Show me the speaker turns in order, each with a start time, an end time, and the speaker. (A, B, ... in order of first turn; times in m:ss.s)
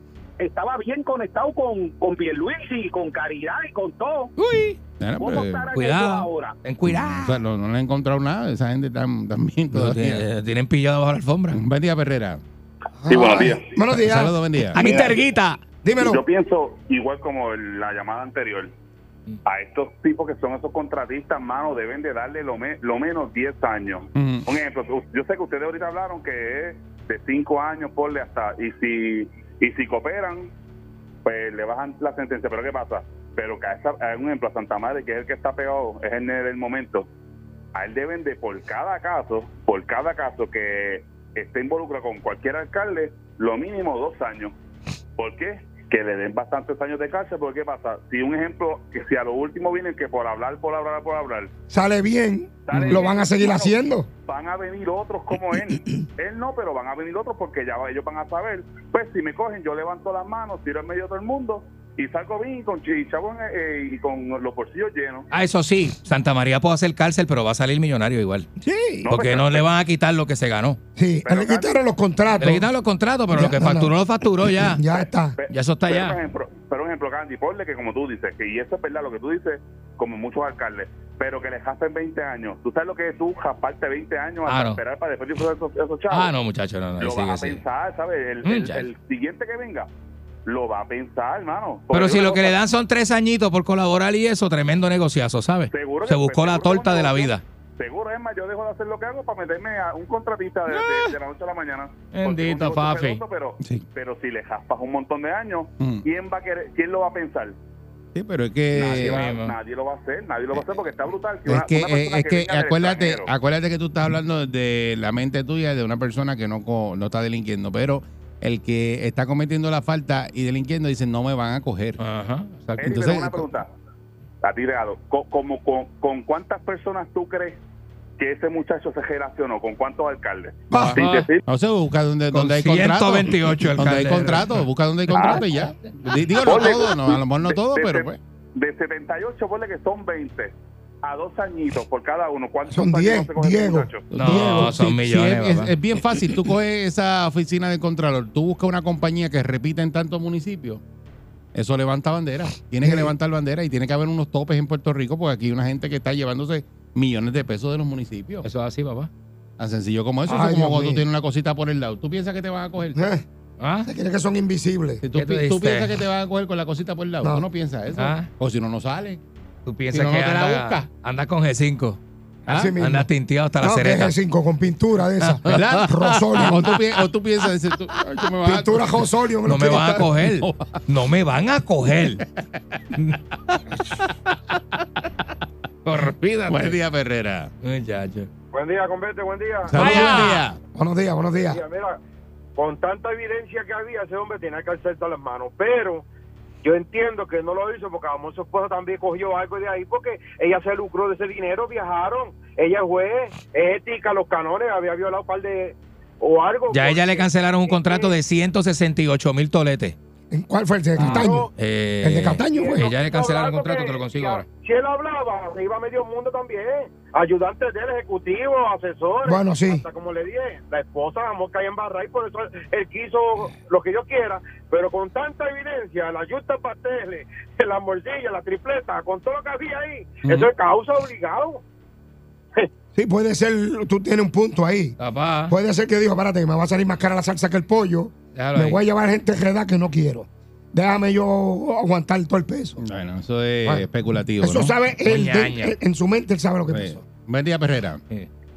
0:00.4-0:04.3 A
0:04.4-0:04.8 B
0:05.0-0:05.7 C
0:05.2-0:06.6 A
0:05.7-0:07.4 B
0:06.9-0:10.2 C
0:09.7-0:11.6 B
0:11.5-0:12.4 C
0:13.0-0:15.2 D
0:13.1-0:13.7 E
0:13.9-0:14.8 C
0:14.7-0:15.6 B
0:15.8-0:16.2 D
0:16.0-0:18.7 E
0:19.4-0:30.5 E
0:24.2-0:24.4 C
0:31.2-0:37.1 E
0:37.7-0:44.5 E
0:45.2-0:51.5 E
0:51.7-0:54.1 D
0:52.7-0:53.8 E
0:54.3-1:05.3 E
0:55.6-0:55.8 D
1:05.3-1:08.5 B
1:08.6-1:09.1 D
1:09.0-1:09.6 E
1:09.1-1:10.8 B
1:11.0-1:12.7 D
1:11.2-1:11.7 E
1:12.4-1:14.8 B
1:13.3-1:13.9 D
1:14.4-1:15.4 D
1:15.4-1:26.3 E
1:15.5-1:16.2 B
1:24.4-1:24.8 B
1:26.1-1:27.6 B
1:27.0-1:29.9 E
1:28.4-1:28.9 B
1:30.4-1:32.6 E
1:31.9-1:37.4 B
1:35.7-1:47.6 E
1:40.7-1:41.1 B
1:42.1-1:43.2 B
1:48.1-1:49.2 C
1:48.8-1:53.3 E
1:48.9-1:49.5 B
1:51.5-2:02.0 C
2:02.0-2:03.0 B
2:02.8-2:03.4 C
2:02.8-2:03.7 E
2:04.4-2:07.6 E
2:08.2-2:11.4 E
2:10.7-2:11.0 D
2:10.7-2:18.2 C
2:10.9-2:11.3 B
2:12.3-2:14.6 B
2:15.2-2:15.4 E
2:16.4-2:24.1 E
2:22.7-2:24.7 D
2:24.1-2:25.7 B
2:24.1-2:30.8 C
2:31.5-2:38.4 C
2:32.8-2:33.1 D
2:38.4-2:39.1 B
2:39.6-2:43.0 C
2:40.2-2:41.0 D
2:42.9-2:43.2 D
2:43.6-2:43.9 B
2:43.8-2:45.0 D
2:45.0-2:49.2 C
2:45.1-2:45.9 B
2:47.9-2:48.3 B
2:49.6-2:52.0 B
2:49.9-2:50.9 C
2:52.5-2:52.8 C
2:52.5-2:53.1 D
2:52.8-2:54.1 B
2:53.6-2:56.7 D
2:55.2-2:55.8 B
2:55.5-2:59.1 C
2:58.4-3:00.1 D
2:59.4-3:02.2 B
3:00.2-3:00.8 C
3:02.9-3:03.2 B
3:05.8-3:06.8 B
3:06.5-3:07.5 C
3:07.6-3:08.3 B
3:08.5-3:10.0 F
3:09.7-3:10.6 C
3:09.7-3:10.4 B
3:10.7-3:11.6 D
3:11.5-3:12.0 F
3:12.6-3:16.0 F
3:16.6-3:28.2 F
3:26.7-3:30.0 B
3:30.3-3:31.5 D
3:31.0-3:31.5 F
3:31.0-3:34.4 B
3:32.0-3:32.9 D
3:32.4-3:51.6 F
3:39.2-3:39.8 D
3:50.2-3:50.5 C
3:52.9-3:55.0 D
3:55.0-3:55.5 B
3:55.5-4:02.8 D
3:58.3-3:58.8 B
4:02.8-4:04.7 C
4:04.4-4:07.0 D
4:05.1-4:05.8 B
4:06.7-4:08.0 C